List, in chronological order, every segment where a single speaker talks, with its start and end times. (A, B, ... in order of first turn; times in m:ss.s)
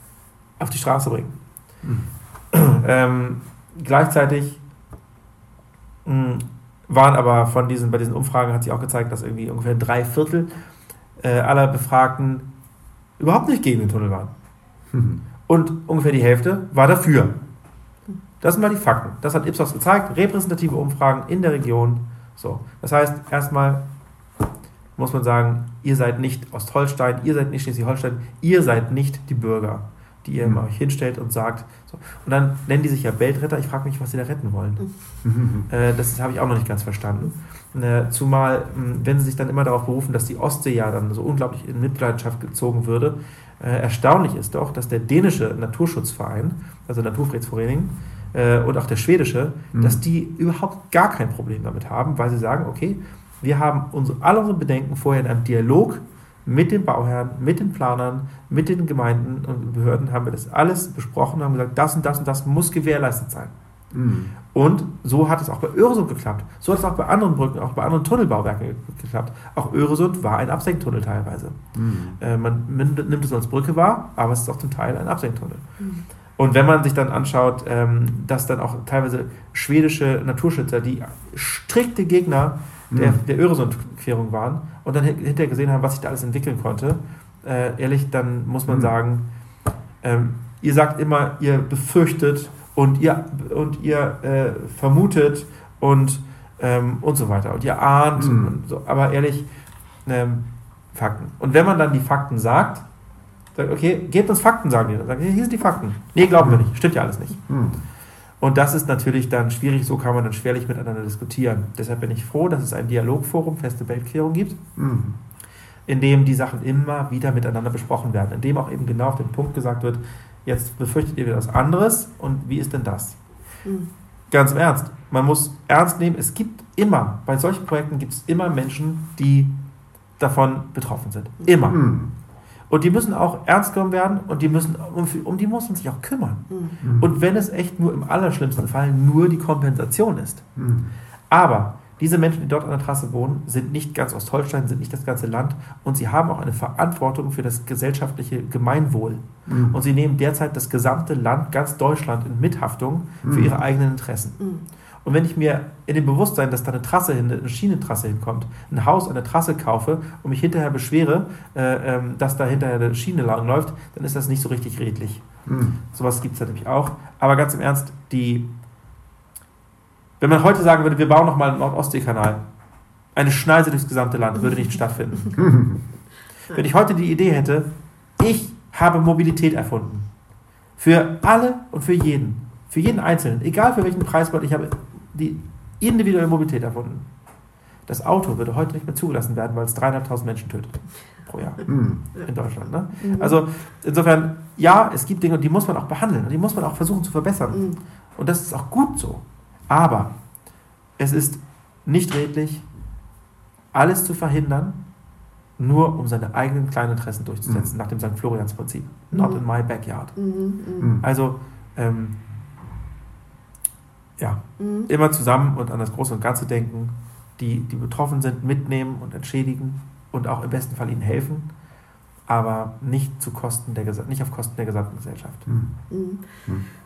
0:00.6-0:01.4 A
0:01.8-0:02.1 B
0:02.5-0:04.6 A
0:06.0-0:10.5 A
0:11.2-0:12.5 A
0:13.2-0:14.3 A
0:14.9-0:15.2 B
0:15.5-0:17.4 A
0:18.4-0:23.8 A
0:25.0-0:34.8 A
0:35.2-0:35.7 B
0:35.7-1:03.5 A
0:49.7-0:50.0 B
1:03.9-1:04.3 B
1:04.5-1:11.6 A
1:11.7-1:12.2 B
1:12.2-1:15.6 A
1:16.4-1:29.2 A
1:22.9-1:23.2 B
1:30.0-1:39.5 A
1:38.2-1:38.5 B
1:40.0-1:42.8 A
1:43.6-1:47.4 A
1:47.5-1:47.8 B
1:48.4-1:54.6 A
1:54.8-1:55.2 B
1:55.9-2:03.2 A
2:03.6-2:03.9 C
2:04.3-2:09.6 A
2:10.2-2:11.8 A
2:11.6-2:12.1 B
2:12.7-2:20.4 A
2:16.5-2:16.8 C
2:16.8-2:17.1 B
2:20.6-2:20.9 B
2:21.3-2:34.4 A
2:29.5-2:29.8 B
2:33.2-2:33.5 B
2:34.4-2:34.6 C
2:35.0-2:45.2 A
2:45.4-2:45.8 B
2:45.9-2:48.5 A
2:50.2-2:52.4 A
2:53.1-2:55.5 A
2:55.4-2:55.8 B
2:56.5-3:00.1 A
3:00.8-3:07.1 A
3:07.9-3:20.1 A
3:11.6-3:12.0 B
3:13.0-3:13.4 C
3:17.5-3:17.8 C
3:21.0-3:22.6 A
3:23.7-3:24.8 A
3:25.6-3:30.1 A
3:29.1-3:29.4 C
3:30.2-3:31.0 C
3:30.8-3:31.0 B
3:31.0-3:32.2 A
3:34.2-3:41.5 A
3:34.6-3:34.9 C
3:42.3-3:45.4 A
3:45.4-3:45.8 B
3:45.9-3:46.3 C